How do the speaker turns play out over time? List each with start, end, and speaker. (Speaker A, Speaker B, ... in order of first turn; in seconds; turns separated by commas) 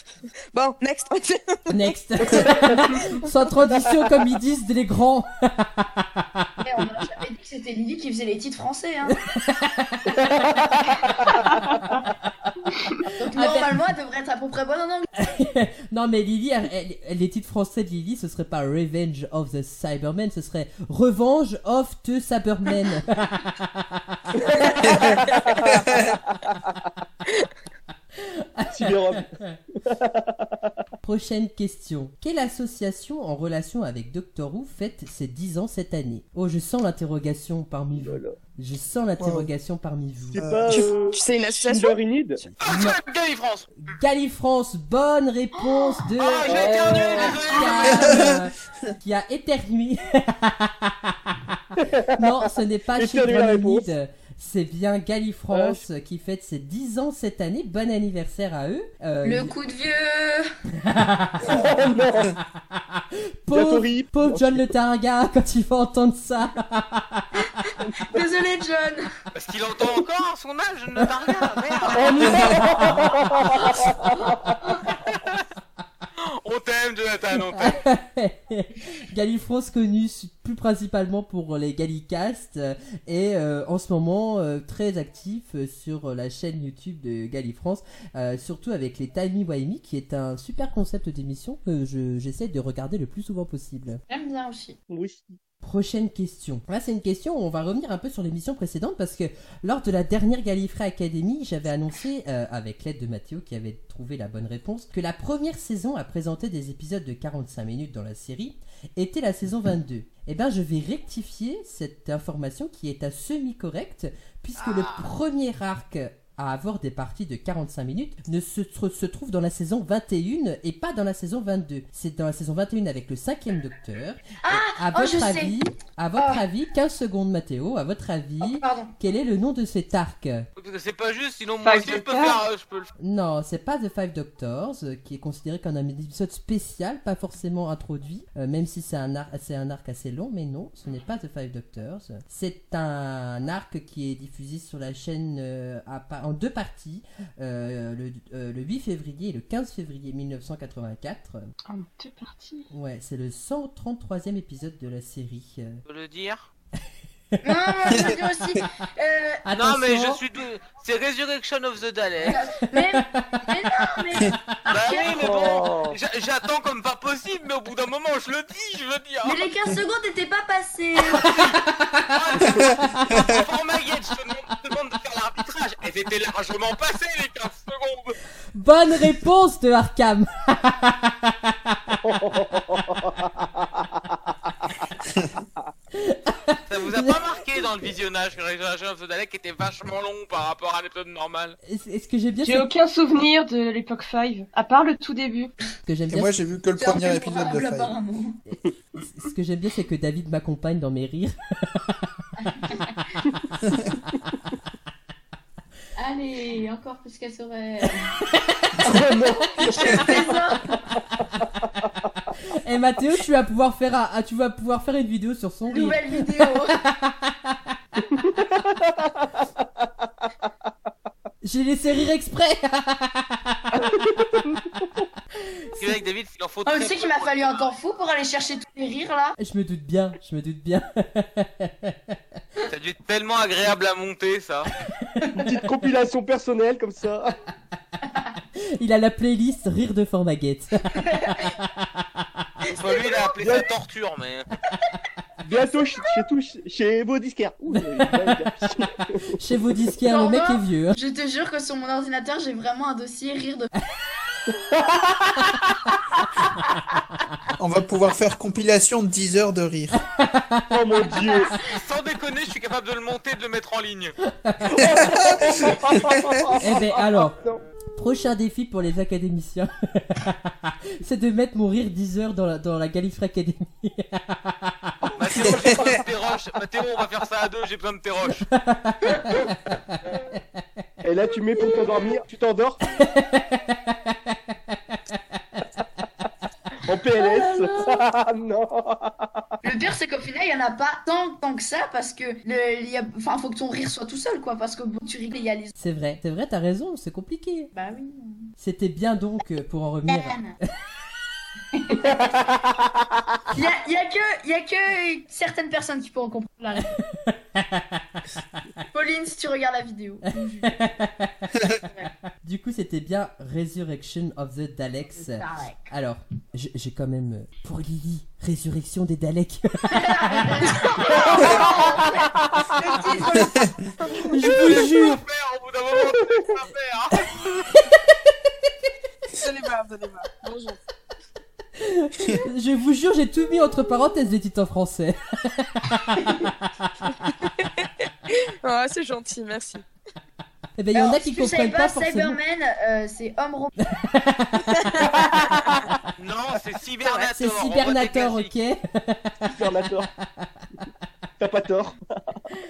Speaker A: 0.5-1.8, Speaker B: 1.7-6.5, Speaker C: 2.3-2.8, Speaker D: 6.6-9.2, Speaker B: 9.1-10.2, Speaker C: 10.2-10.7, Speaker D: 13.2-15.1, Speaker B: 13.3-13.9, Speaker B: 15.2-24.4, Speaker C: 24.3-26.5, Speaker E: 24.9-25.2, Speaker B: 28.2-29.6, Speaker C: 28.7-30.7, Speaker B: 31.0-40.4, Speaker C: 38.0-38.4, Speaker E: 39.2-39.5, Speaker C: 40.3-42.4, Speaker E: 40.4-40.9, Speaker A: 40.7-42.0, Speaker B: 42.6-43.0, Speaker F: 42.6-43.7, Speaker B: 43.9-51.4, Speaker F: 46.2-48.3, Speaker C: 46.5-47.4, Speaker E: 47.9-48.4, Speaker C: 51.8-52.2, Speaker B: 52.1-59.5, Speaker C: 53.0-53.9, Speaker C: 55.5-55.8, Speaker D: 59.2-60.5, Speaker B: 60.8-61.7, Speaker C: 61.4-62.4, Speaker B: 62.7-67.4, Speaker C: 63.5-64.6, Speaker D: 68.0-69.1, Speaker F: 69.3-72.6, Speaker C: 71.9-74.4, Speaker B: 72.8-73.1, Speaker F: 76.2-77.8, Speaker B: 77.5-94.0, Speaker D: 94.1-94.8, Speaker C: 94.9-95.4, Speaker B: 95.6-130.5, Speaker F: 114.6-115.1, Speaker D: 124.4-125.6, Speaker D: 126.2-126.4, Speaker D: 128.4-128.9, Speaker F: 130.6-132.9, Speaker G: 131.6-132.4, Speaker B: 133.0-151.5, Speaker G: 151.7-152.7, Speaker B: 152.7-155.8, Speaker F: 155.9-156.5, Speaker B: 157.4-158.1, Speaker D: 157.4-159.4, Speaker B: 159.4-160.2, Speaker F: 159.5-162.4, Speaker D: 162.2-165.3, Speaker B: 162.8-163.4, Speaker F: 164.7-169.4, Speaker C: 165.0-166.0, Speaker D: 169.2-171.4, Speaker F: 171.1-171.6, Speaker F: 172.1-178.2, Speaker C: 172.4-172.6, Speaker B: 178.6-182.0, Speaker C: 182.0-184.2, Speaker B: 185.9-187.2, Speaker F: 186.7-191.6, Speaker B: 191.7-192.7, Speaker G: 192.4-195.5, Speaker B: 195.9-196.4, Speaker E: 196.1-197.9, Speaker D: 196.8-198.4, Speaker B: 199.1-201.9, Speaker D: 202.4-203.0, Speaker D: 206.0-208.1, Speaker C: 208.8-210.3, Speaker D: 209.5-210.8, Speaker C: 211.5-211.9, Speaker B: 212.5-217.8, Speaker D: 215.7-216.8, Speaker C: 218.1-219.3, Speaker B: 221.4-223.8, Speaker C: 223.7-224.9, Speaker B: 225.4-225.9, Speaker F: 225.8-227.7, Speaker D: 226.7-229.4, Speaker B: 229.4-232.2, Speaker F: 232.6-234.7, Speaker C: 235.3-237.3, Speaker B: 238.6-241.0, Speaker D: 241.0-241.5, Speaker B: 241.6-242.4, Speaker D: 242.7-243.2, Speaker F: 242.7-244.5, Speaker C: 243.4-243.7, Speaker C: 245.4-249.3, Speaker B: 247.7-248.7, Speaker B: 249.3-251.0, Speaker D: 250.0-253.7, Speaker C: 254.5-255.5, Speaker E: 257.6-260.0, Speaker B: 260.0-261.0, Speaker C: 260.7-261.6, Speaker D: 261.2-261.6, Speaker F: 261.6-264.1, Speaker B: 264.3-265.1, Speaker C: 264.7-267.6, Speaker E: 265.1-266.2, Speaker B: 266.6-267.4, Speaker B: 267.9-274.9, Speaker F: 275.2-278.5, Speaker C: 275.5-275.8, Speaker B: 278.5-279.8, Speaker C: 281.0-282.8, Speaker B: 283.0-284.4, Speaker C: 286.9-289.4, Speaker D: 287.2-287.9, Speaker D: 289.6-295.8, Speaker B: 295.8-297.7, Speaker D: 297.7-298.5, Speaker B: 298.6-300.4, Speaker D: 300.1-300.6, Speaker D: 301.7-302.5, Speaker D: 303.5-307.0, Speaker B: 307.0-308.3, Speaker D: 308.9-310.8, Speaker B: 310.6-311.5, Speaker D: 311.7-312.1, Speaker B: 312.0-320.9, Speaker D: 315.2-315.9, Speaker D: 319.9-324.3, Speaker F: 321.1-321.5, Speaker E: 323.4-323.7, Speaker B: 324.2-325.2, Speaker F: 324.4-327.5, Speaker A: 329.4-330.8, Speaker B: 331.8-337.1, Speaker A: 337.3-339.9, Speaker B: 340.8-342.4, Speaker D: 340.9-343.8, Speaker B: 343.9-345.9, Speaker F: 346.2-348.5, Speaker B: 347.3-350.6, Speaker C: 349.5-350.1, Speaker C: 351.4-352.4